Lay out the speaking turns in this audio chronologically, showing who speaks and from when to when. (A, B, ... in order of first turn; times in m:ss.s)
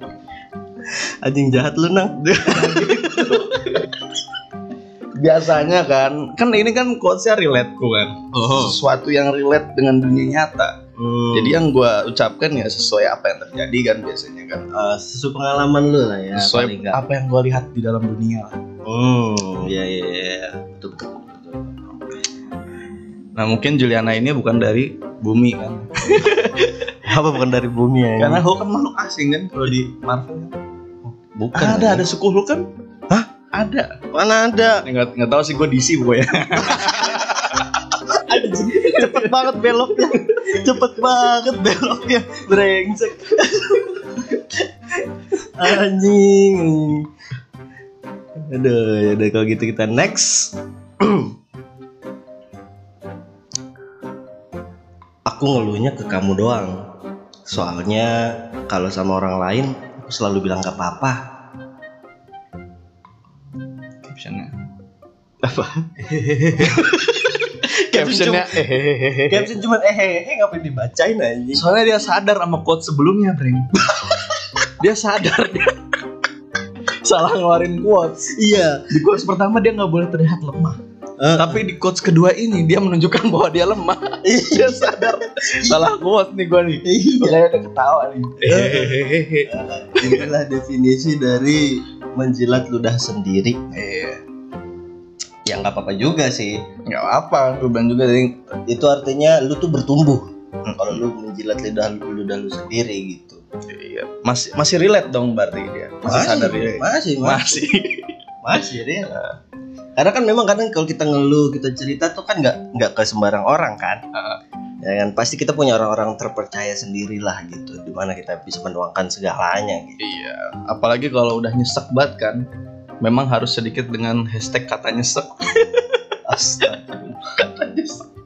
0:00.9-0:03.3 A
0:02.5-0:04.1 B
0:05.2-0:10.8 B
0:08.3-0:08.8 A
0:11.0-0:11.6 A
0:11.3-0:14.7 B
0:14.7-0:17.0 A
0:16.4-0:18.6 B
0:18.8-0:21.9 A
0:23.4-0:26.9 B
0:27.0-0:28.4 A
0:28.2-0:30.6 B
0:31.4-0:32.0 A
0:31.6-0:32.7 B
0:33.5-0:34.0 B
0:34.1-0:34.8 A
0:34.8-0:39.4 B
0:38.1-0:44.4 A
0:45.4-0:47.1 A
0:48.5-0:51.3 A
0:55.3-0:56.8 A
0:57.5-1:01.2 A
1:04.0-1:04.6 B
1:05.4-1:07.1 A
1:06.5-1:09.5 B
1:07.9-1:08.6 A
1:09.3-1:11.6 A
1:11.5-1:15.8 B
1:17.0-1:18.3 B
1:18.3-1:18.8 A
1:18.9-1:20.8 B
1:21.2-1:21.6 A
1:21.4-1:30.3 B
1:24.2-1:25.9 A
1:26.8-1:27.4 A
1:28.4-1:33.6 A
1:33.7-1:34.2 B
1:35.4-1:36.6 A
1:36.9-1:38.5 B
1:38.7-1:43.4 A
1:40.7-1:41.0 B
1:43.7-1:48.2 B
1:46.0-1:47.6 A
1:48.4-1:49.2 A
1:50.0-1:54.0 A
1:54.1-1:54.4 B
1:54.8-2:00.0 A
2:00.0-2:02.5 B
2:03.0-2:08.1 B
2:06.3-2:06.8 A